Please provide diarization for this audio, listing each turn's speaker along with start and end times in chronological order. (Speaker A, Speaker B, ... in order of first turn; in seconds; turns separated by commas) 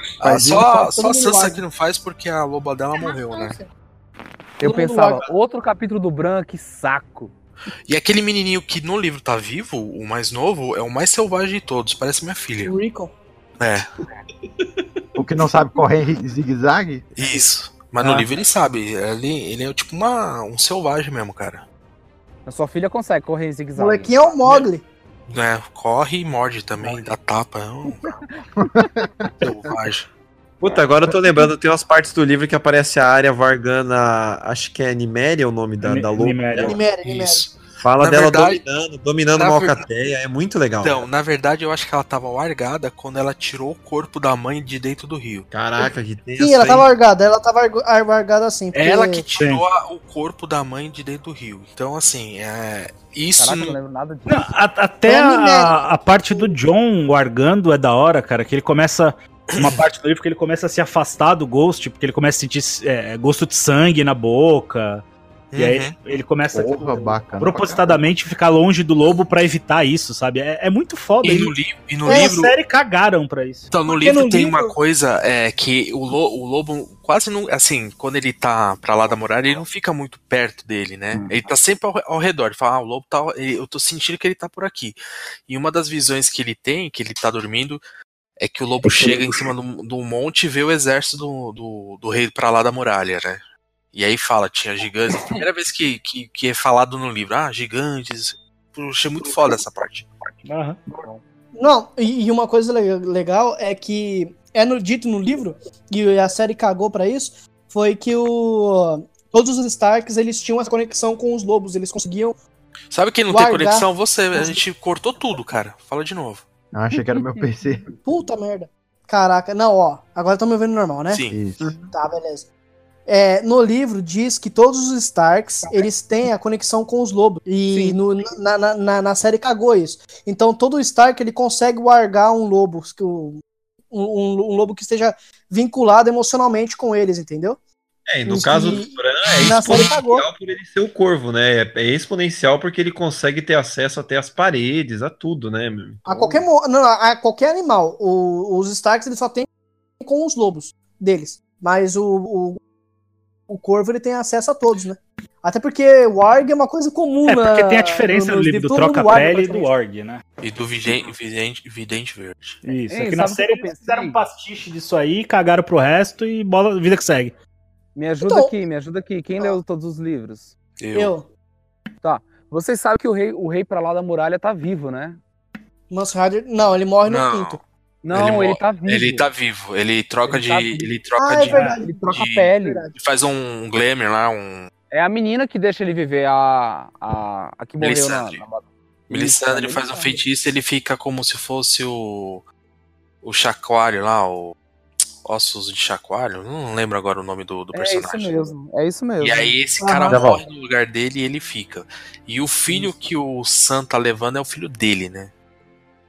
Speaker A: 0.2-3.6, Speaker B: 0.2-0.7, Speaker C: 0.5-1.6, Speaker D: 4.6-7.3, Speaker C: 4.6-5.3, Speaker A: 7.9-12.8, Speaker C: 12.6-13.1, Speaker A: 13.6-14.0, Speaker B: 15.2-17.0, Speaker A: 17.1-21.6, Speaker D: 22.4-24.4, Speaker C: 23.8-24.8, Speaker A: 25.3-28.1, Speaker B: 28.6-29.3, Speaker A: 29.4-30.1, Speaker E: 30.6-36.8, Speaker F: 35.8-36.8, Speaker C: 36.6-37.5, Speaker A: 36.8-38.6, Speaker E: 37.8-41.1, Speaker A: 39.3-39.8, Speaker A: 40.8-45.5, Speaker E: 45.5-46.9, Speaker C: 46.4-49.3, Speaker A: 48.8-53.8, Speaker F: 49.4-49.6, Speaker D: 53.4-54.5, Speaker F: 54.2-65.0, Speaker C: 55.0-56.5, Speaker A: 59.5-59.8, Speaker A: 65.5-65.9, Speaker F: 65.5-71.5, Speaker B: 66.5-68.0, Speaker A: 71.2-72.5, Speaker C: 72.0-72.4, Speaker F: 72.1-73.7, Speaker A: 73.7-85.0, Speaker C: 73.8-74.7, Speaker A: 85.5-87.8, Speaker A: 88.4-93.4, Speaker A: 93.9-100.1, Speaker F: 100.4-100.8, Speaker C: 101.5-112.4, Speaker A: 112.9-116.4, Speaker C: 113.3-114.6, Speaker B: 116.7-117.9, Speaker C: 118.0-121.2, Speaker A: 121.1-121.7, Speaker B: 121.3-121.7, Speaker C: 121.9-122.5, Speaker C: 123.1-137.6, Speaker D: 127.7-128.0, Speaker E: 138.1-146.4, Speaker C: 138.2-140.2, Speaker C: 146.0-149.5, Speaker C: 150.0-152.6, Speaker C: 153.5-159.7, Speaker F: 157.2-160.2, Speaker A: 160.4-162.6, Speaker F: 162.6-167.3, Speaker D: 162.9-164.2, Speaker D: 167.9-170.5, Speaker C: 168.2-168.5, Speaker A: 170.8-171.1, Speaker C: 170.9-171.2, Speaker D: 172.0-175.2, Speaker C: 175.9-177.6, Speaker A: 177.0-177.6, Speaker D: 178.0-179.3, Speaker A: 178.1-184.7, Speaker D: 180.3-180.9, Speaker C: 181.2-182.9, Speaker D: 181.4-182.8, Speaker D: 184.9-190.2, Speaker A: 187.8-188.4, Speaker A: 189.1-192.4, Speaker A: 193.2-194.6, Speaker A: 195.2-198.5, Speaker D: 197.7-199.6, Speaker A: 199.2-205.3, Speaker C: 199.8-200.3, Speaker D: 202.7-202.9